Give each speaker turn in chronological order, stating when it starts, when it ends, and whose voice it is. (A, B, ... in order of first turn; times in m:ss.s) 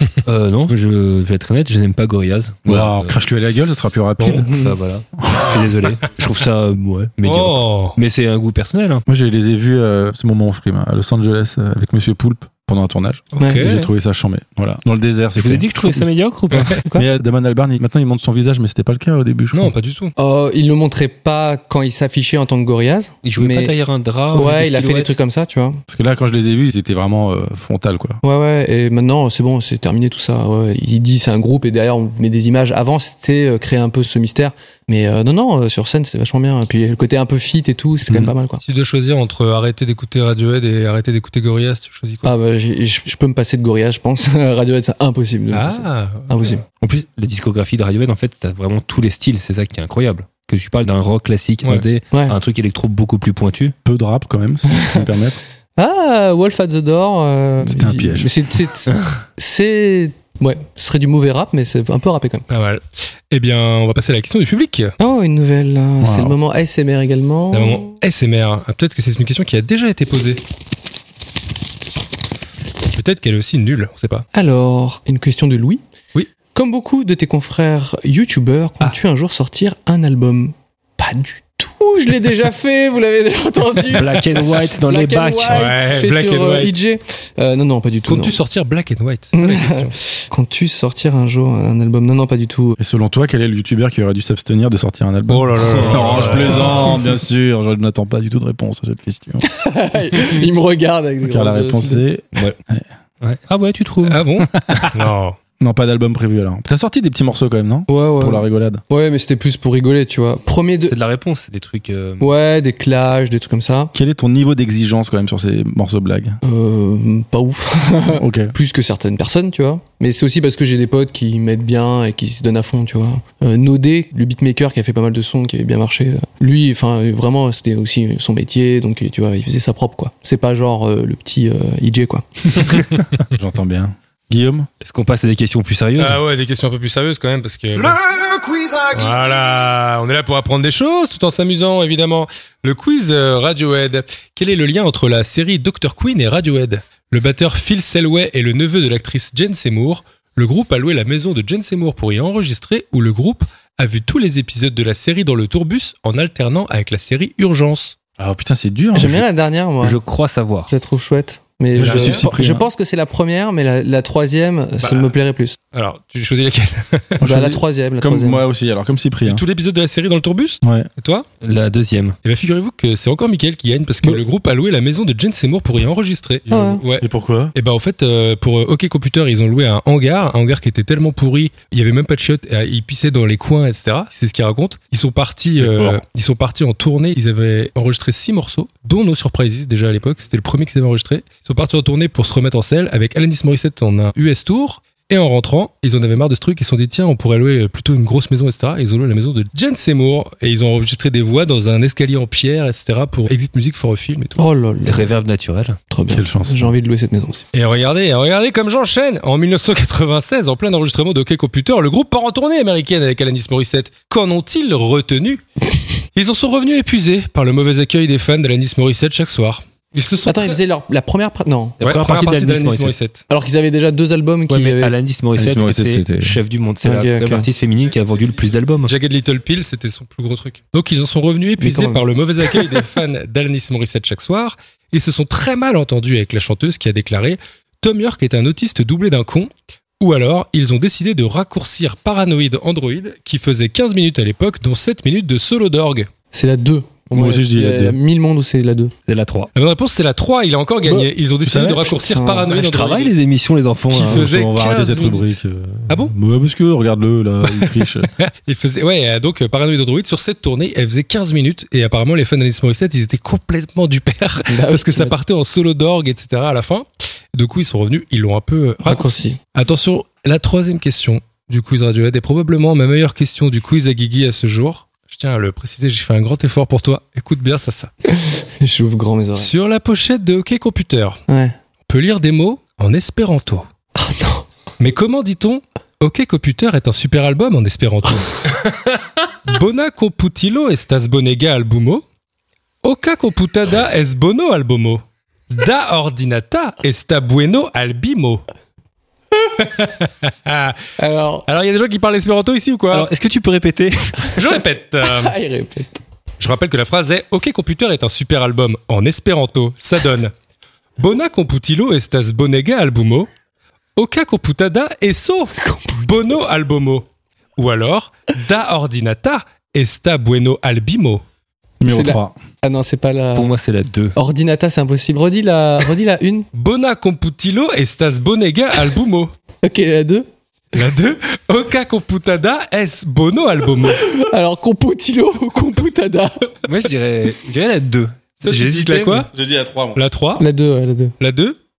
0:00.2-0:03.2 A
0:02.6-0:04.5 B
0:04.2-0:04.5 C
0:04.5-0:09.0 A
0:05.2-0:05.6 B
0:07.2-0:08.0 C
0:09.0-0:16.1 B
0:13.4-0:13.9 C
0:13.4-0:13.6 D
0:15.4-0:16.8 A
0:16.5-0:16.8 C
0:16.8-0:17.1 D
0:16.9-0:19.7 B
0:19.5-0:20.1 C
0:20.2-0:23.7 D
0:23.2-0:25.2 A
0:24.3-0:25.8 D
0:25.9-0:28.2 B
0:28.2-0:38.6 D
0:38.6-0:42.3 C
0:42.2-0:46.6 D
0:45.5-0:46.4 C
0:46.8-0:53.7 A
0:52.1-0:52.4 D
0:53.8-0:55.4 B
0:54.7-0:55.0 D
0:55.8-1:02.4 D
0:57.6-0:58.3 B
1:02.5-1:04.9 C
1:05.0-1:07.9 D
1:06.0-1:06.4 B
1:07.5-1:10.4 C
1:12.9-1:14.2 C
1:14.3-1:15.8 D
1:16.5-1:28.4 D
1:23.9-1:25.7 A
1:25.5-1:26.7 C
1:28.1-1:29.9 C
1:29.3-1:32.8 D
1:32.8-1:39.4 B
1:35.3-1:37.0 C
1:35.6-1:36.9 A
1:39.4-1:42.0 D
1:41.2-1:42.8 B
1:43.2-1:44.2 A
1:44.0-1:45.4 C
1:45.6-1:48.8 B
1:47.9-1:51.0 D
1:50.9-1:52.3 A
1:52.2-1:53.9 D
1:53.9-1:56.4 B
1:56.4-2:12.8 D
1:58.1-1:58.5 B
2:13.2-2:14.7 B
2:14.8-2:16.2 A
2:16.0-2:18.0 C
2:18.9-2:38.0 C
2:38.2-2:39.2 B
2:38.9-2:40.0 D
2:39.8-2:40.7 A
2:40.7-2:45.6 D
2:41.8-2:42.7 B
2:41.8-2:42.3 C
2:44.8-2:45.1 C
2:45.7-2:47.2 C
2:47.2-2:49.4 B
2:47.2-2:48.4 D
2:49.2-2:51.2 C
2:50.6-2:50.9 B
2:51.4-2:52.2 A
2:52.2-3:24.4 C
2:56.5-2:57.5 B
2:56.5-2:56.8 D
3:05.6-3:06.0 B
3:24.4-3:25.1 D
3:24.8-3:25.8 A
3:25.9-3:27.4 D
3:26.1-3:26.7 B
3:27.5-3:35.4 C
3:36.1-3:40.6 C
3:40.2-3:41.8 D
3:41.8-3:42.9 A
3:41.8-3:43.2 C
3:43.3-3:44.9 D
3:44.5-3:48.9 A
3:45.4-3:46.4 B
3:46.8-3:47.5 D
3:48.8-4:06.1 C
3:51.6-3:52.0 D
4:06.3-4:08.9 D
4:07.1-4:08.0 B
4:09.0-4:09.5 A
4:09.5-4:13.1 C
4:11.4-4:11.8 B
4:11.8-4:12.5 D
4:12.5-4:14.3 A
4:13.9-4:16.1 C
4:14.0-4:18.1 B
4:17.5-4:37.9 C
4:24.5-4:25.2 D
4:28.8-4:29.4 D
4:38.1-4:39.5 D
4:39.3-4:41.2 C
4:41.3-4:41.5 D
4:41.8-4:43.7 C
4:44.0-4:44.4 D
4:44.8-4:48.7 C
4:49.4-4:52.0 C
4:52.8-4:58.4 C
4:59.4-5:00.8 C
5:01.0-5:01.4 D
5:01.5-5:03.1 C
5:02.9-5:04.4 A
5:04.3-5:05.3 C
5:05.0-5:06.0 D
5:06.4-5:10.3 C
5:11.0-5:13.3 C
5:14.0-5:17.0 C
5:17.6-5:21.2 C
5:21.8-5:22.4 B
5:21.8-5:23.5 D
5:23.3-5:24.2 A
5:24.1-5:26.5 D
5:26.5-5:29.3 C
5:29.6-5:30.2 D
5:30.7-5:34.0 C
5:34.0-5:36.5 D
5:36.6-5:39.3 A
5:38.4-5:39.3 C
5:39.3-5:40.0 B
5:39.9-5:40.4 C
5:40.4-5:41.2 D
5:41.2-5:41.6 C